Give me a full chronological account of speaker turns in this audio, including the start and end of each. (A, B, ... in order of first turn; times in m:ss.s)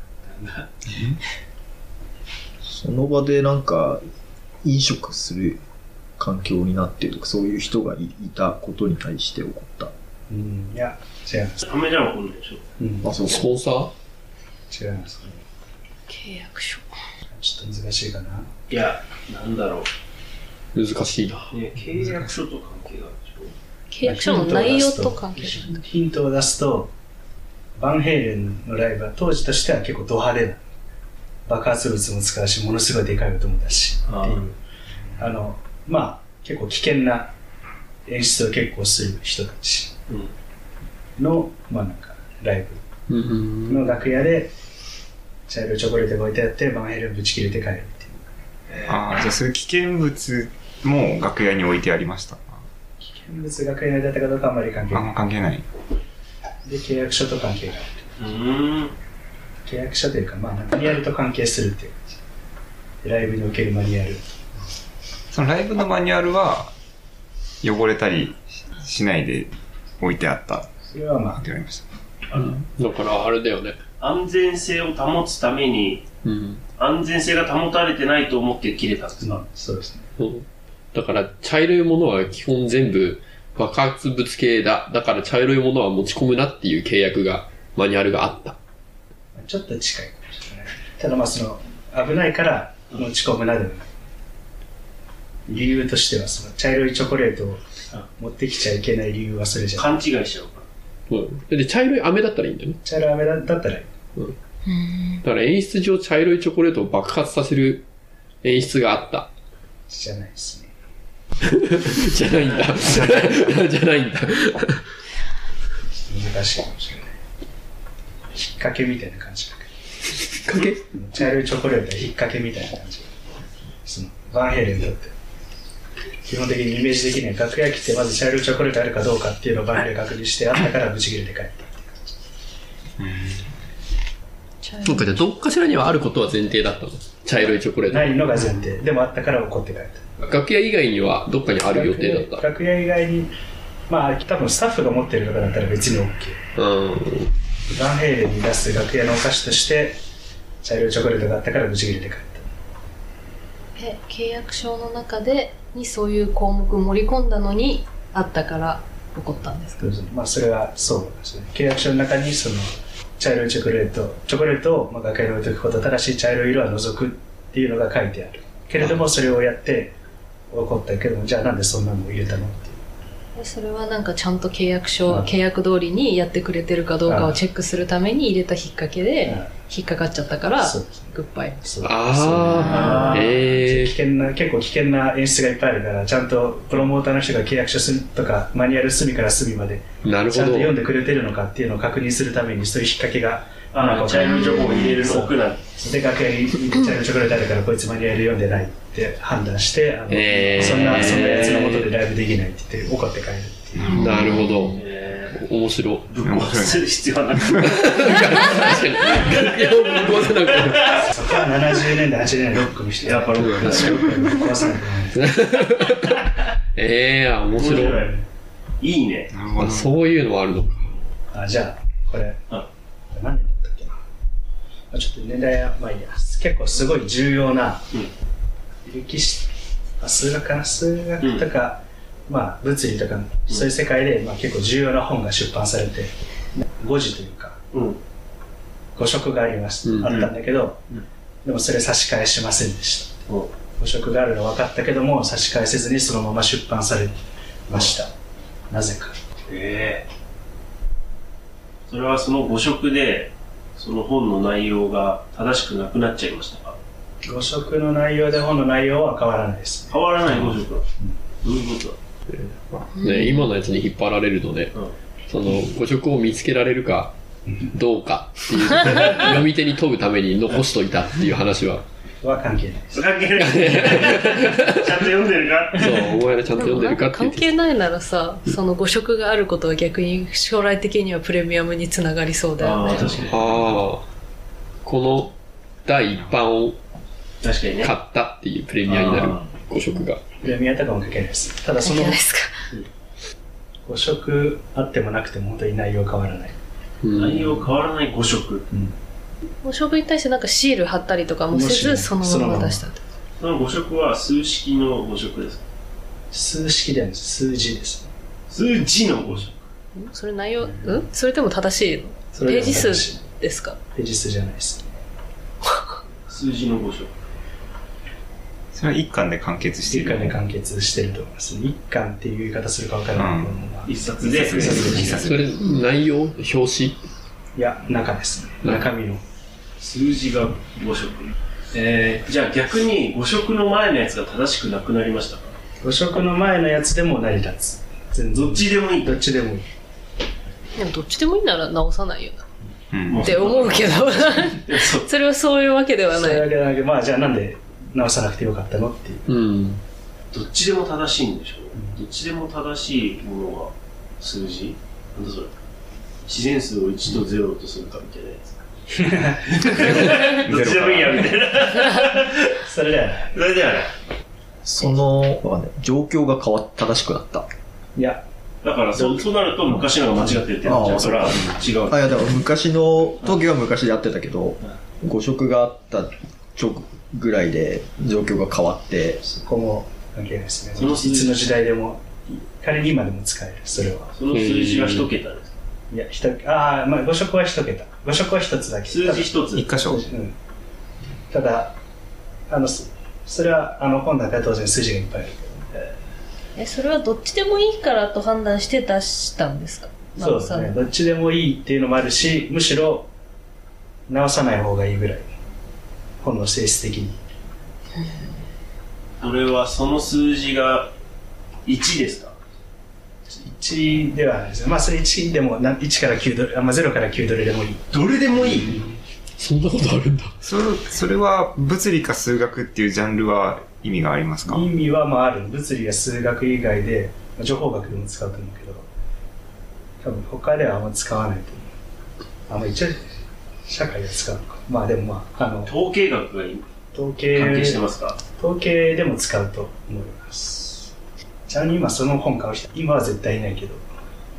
0:00.2-0:00.7 A
0:02.6-0:04.0 B
0:04.6-0:05.6 B
0:06.2-0:09.9 B
0:10.3-0:11.6 C
0:11.6-0:12.6 A
0:12.8-0:13.1 C
0:13.0-0:13.4 B
0:13.2-0:13.9 D
0:14.7-0:15.4 C
0:16.1-0:16.9 E
0:17.3-0:18.5 C
0:18.7-0:19.9 A
0:20.7-0:21.5 D
0:21.5-0:23.5 A
0:23.9-0:25.8 E
0:24.0-0:26.9 C
0:27.8-0:30.6 C
0:31.5-0:34.6 C
0:34.1-0:34.4 A
0:35.2-0:37.3 C
0:38.0-0:39.9 C
0:41.2-0:42.8 C
0:43.1-0:43.8 D
0:43.7-0:44.5 C
0:45.5-0:48.2 C
0:48.7-0:49.3 A
0:48.8-0:52.6 F
0:53.0-0:55.1 C
0:54.9-0:55.6 F
0:56.6-0:58.1 C
0:58.2-0:58.9 A
0:59.6-1:02.0 C
1:03.0-1:04.2 C
1:05.3-1:06.7 F
1:07.6-1:10.7 F
1:10.8-1:11.4 C
1:11.3-1:11.8 F
1:12.3-1:12.6 A
1:12.3-1:13.8 D
1:14.0-1:16.0 A
1:16.2-1:16.6 D
1:16.8-1:19.2 A
1:19.2-1:20.1 C
1:20.2-1:28.6 D
1:29.3-1:33.9 C
1:35.5-1:37.6 C
1:38.2-1:40.0 C
1:39.8-1:40.7 A
1:41.1-1:42.8 D
1:42.8-1:43.9 C
1:44.6-1:45.2 E
1:45.2-1:47.9 D
1:48.4-1:49.3 D
1:49.9-1:50.7 C
1:51.5-1:54.8 D
1:52.4-1:52.7 A
1:52.8-1:53.3 C
1:56.0-1:57.1 C
1:58.3-1:59.7 C
2:00.5-2:00.8 B
2:00.9-2:03.1 C
2:03.8-2:05.1 C
2:06.2-2:12.1 C
2:13.0-2:13.5 F
2:14.6-2:15.2 E
2:14.8-2:18.2 D
2:17.9-2:20.0 C
2:20.2-2:22.4 D
2:21.6-2:23.3 C
2:23.9-2:26.4 C
2:26.6-2:27.3 D
2:27.7-2:30.0 C
2:30.6-2:32.5 C
2:33.8-2:39.9 E
2:39.8-2:50.0 C
2:50.5-2:52.8 C
2:53.4-3:01.6 E
2:55.1-2:55.3 C
2:57.0-2:57.4 C
2:59.2-2:59.5 C
3:00.6-3:24.0 C
3:01.8-3:03.9 D
3:10.0-3:10.7 D
3:13.7-3:15.6 A
3:20.1-3:21.9 D
3:20.6-3:21.7 A
3:23.8-3:24.6 F
3:23.9-3:26.1 D
3:24.8-3:25.4 A
3:26.1-3:28.4 A
3:26.2-3:27.5 F
3:27.6-3:31.0 D
3:31.0-3:35.2 C
3:33.0-3:34.3 A
3:35.1-3:36.2 D
3:36.7-3:38.1 D
3:37.5-3:38.1 A
3:37.8-3:38.2 C
3:38.8-3:39.3 A
3:39.3-3:40.0 F
3:39.6-3:40.7 D
3:41.3-3:42.4 C
3:43.1-3:44.0 C
3:44.9-3:47.8 C
3:48.8-3:57.6 C
3:51.2-3:51.4 A
3:57.7-3:58.0 A
3:58.9-4:00.8 C
4:00.0-4:00.3 A
4:01.4-4:03.2 C
4:03.3-4:03.5 A
4:03.8-4:07.2 C
4:07.7-4:08.1 C
4:08.7-4:09.2 C
4:09.5-4:10.1 A
4:11.9-4:16.8 A
4:17.2-4:20.0 C
4:19.9-4:20.8 A
4:21.4-4:22.0 A
4:22.3-4:24.7 D
4:22.9-4:23.5 E
4:25.3-4:27.1 D
4:27.7-4:31.8 D
4:32.2-4:33.0 C
4:32.9-4:36.0 A
4:33.4-4:35.0 D
4:35.8-4:37.5 D
4:36.5-4:43.2 E
4:42.6-4:43.4 A
4:43.2-4:44.0 D
4:44.8-4:45.3 D
4:45.8-4:46.8 D
4:46.1-4:46.5 F
4:47.4-4:47.9 A
4:47.8-4:50.2 D
4:48.8-4:49.4 A
4:50.4-4:52.2 C
4:51.8-4:52.5 E
4:53.8-4:56.6 C
4:57.0-4:57.5 D
4:57.2-4:58.6 A
4:59.6-5:03.0 E
5:01.5-5:02.9 C
5:03.4-5:05.6 A
5:06.3-5:08.1 C
5:08.5-5:09.6 A
5:10.0-5:13.8 E
5:10.6-5:11.0 C
5:12.3-5:13.2 C
5:13.9-5:15.0 C
5:15.6-5:15.9 E
5:16.2-5:17.1 A
5:18.7-5:20.4 F
5:19.9-5:25.2 C
5:23.2-5:23.6 F
5:23.8-5:25.2 A
5:24.2-5:25.4 F
5:24.9-5:27.0 D
5:27.6-5:29.2 C
5:29.8-5:35.5 A
5:35.8-5:39.6 C
5:38.3-5:39.2 A
5:40.8-5:42.4 E
5:42.9-5:43.6 F
5:43.1-5:45.1 A
5:43.2-5:46.5 E
5:46.1-5:49.2 C
5:49.3-5:49.8 D
5:50.3-5:55.5 A
5:51.7-5:52.0 C
5:56.2-5:58.6 A
5:58.9-5:59.5 C
5:59.5-6:02.5 A
5:59.8-6:01.3 F
6:02.6-6:03.3 C
6:03.3-6:03.9 A
6:04.6-6:07.5 B
6:07.9-6:08.2 C
6:08.6-6:12.1 A
6:08.9-6:09.3 C
6:10.6-6:19.2 B
6:19.2-6:24.1 C
6:20.8-6:21.4 A
6:24.1-6:25.6 A
6:24.3-6:25.1 D
6:25.9-6:30.3 C
6:28.8-6:29.7 A
6:29.5-6:30.0 F
6:31.3-6:31.8 C
6:32.5-6:35.9 C
6:36.6-6:40.8 E
6:40.2-6:43.1 C
6:44.1-6:45.3 C
6:46.2-6:47.2 C
6:49.2-6:50.9 A
6:51.6-6:52.3 A
6:53.3-6:57.8 C
6:57.9-6:58.8 A
6:58.4-6:58.8 F
6:59.4-7:00.3 D
7:00.4-7:04.7 F
7:04.4-7:08.9 C
7:10.0-7:11.7 C
7:12.5-7:13.0 C
7:13.6-7:15.7 C
7:15.6-7:16.6 A
7:16.9-7:17.8 C
7:17.3-7:18.2 A
7:18.4-7:20.9 C
7:21.5-7:23.8 C